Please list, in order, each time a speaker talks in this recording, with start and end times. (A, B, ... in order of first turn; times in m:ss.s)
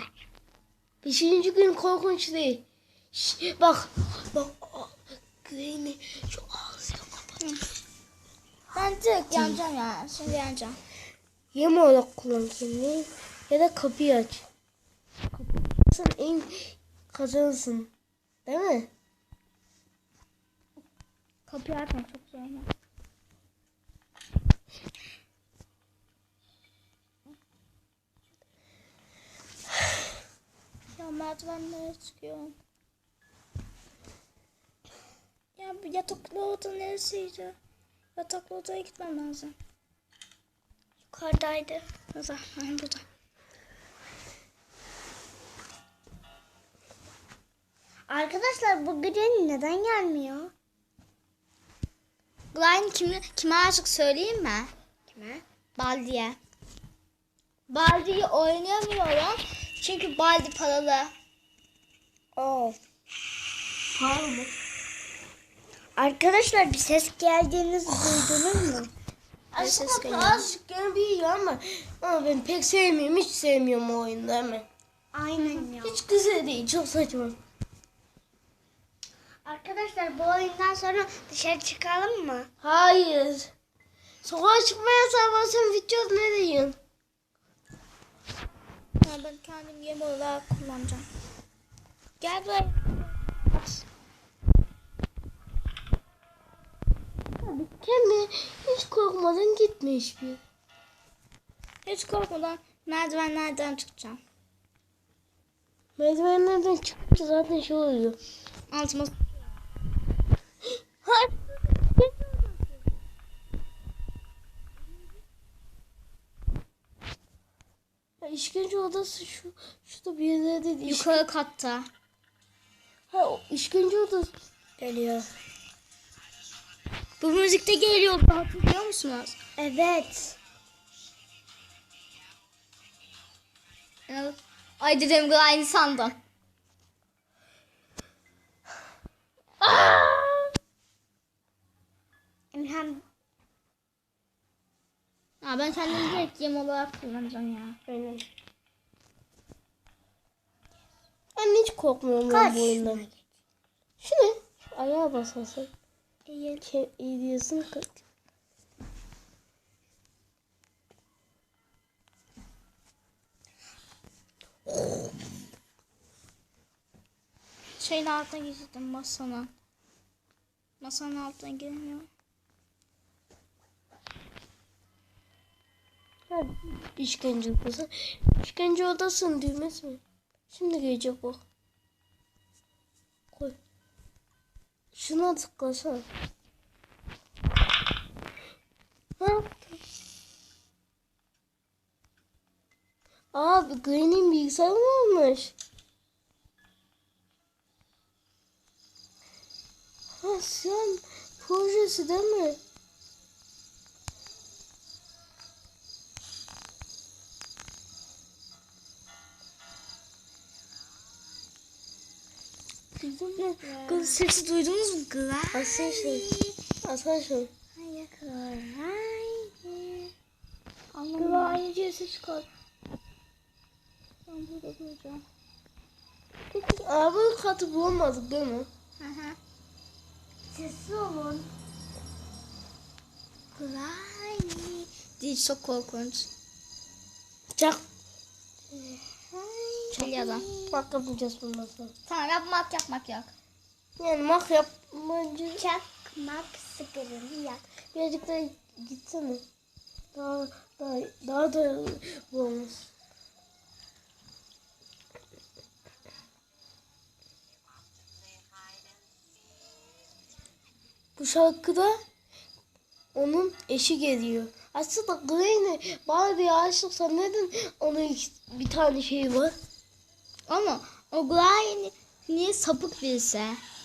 0:01.0-0:07.2 A
0:08.7-0:10.8 B
0:09.3-0:09.6 A
0:11.5-0:14.5 A
0:15.8-0:17.9 A
0:18.4-0:18.9 A
0:21.5-0:22.7 B
0:31.0-0:32.5 B
0:35.6-0:37.6 B
0:38.2-0:39.6 B
0:41.1-0:41.8 C
0:42.1-0:43.0 B
0:48.1-0:50.5 C
0:52.5-0:54.7 B
0:55.1-0:55.4 C
0:55.8-0:56.4 B
0:57.7-1:01.1 B
1:02.4-1:02.8 C
1:03.9-1:04.5 A
1:06.0-1:08.9 C
1:09.5-1:14.6 A
1:09.6-1:10.5 B
1:15.1-1:16.0 C
1:15.7-1:17.4 A
1:19.4-1:22.5 C
1:22.6-1:23.5 A
1:24.2-1:26.8 A
1:29.0-1:31.0 B
1:32.2-1:33.8 B
1:37.4-1:40.4 A
1:41.8-1:44.2 B
1:46.0-1:48.2 A
1:48.7-1:49.2 B
1:51.0-1:52.8 A
1:58.2-2:01.2 A
2:00.8-2:01.9 B
2:03.1-2:05.3 A
2:07.2-2:09.4 B
2:09.6-2:10.3 C
2:14.1-2:16.2 B
2:19.6-2:20.5 A
2:22.5-2:23.0 C
2:25.4-2:27.8 B
2:27.9-2:28.2 A
2:31.3-2:33.0 A
2:32.3-2:33.1 C
2:34.0-2:35.7 A
2:36.3-2:36.6 C
2:36.6-2:38.0 A
2:47.8-2:49.5 B
2:50.8-2:52.1 B
2:56.3-3:01.4 A
3:03.3-3:03.6 A
3:04.9-3:06.1 A
3:09.2-3:09.8 A
3:13.3-3:15.5 A
3:20.2-3:22.6 A
3:33.0-3:33.3 A
3:33.4-3:34.2 C
3:33.8-3:36.3 B
3:35.5-3:36.3 A
3:36.8-3:37.5 A
3:37.8-3:40.1 C
3:41.0-3:42.5 B
3:41.1-3:41.6 C
3:44.3-3:45.2 B
3:46.5-3:48.7 A
3:49.0-3:49.4 B
3:50.5-3:51.5 C
3:53.6-3:56.3 B
3:57.6-3:57.8 A
3:58.7-4:00.8 C
3:59.9-4:00.4 B
4:00.7-4:01.9 A
4:02.1-4:03.3 B
4:04.0-4:05.6 A
4:05.6-4:07.6 C
4:07.9-4:09.4 A
4:10.1-4:12.9 A
4:21.2-4:22.0 A
4:23.1-4:29.5 A
4:30.5-4:33.6 B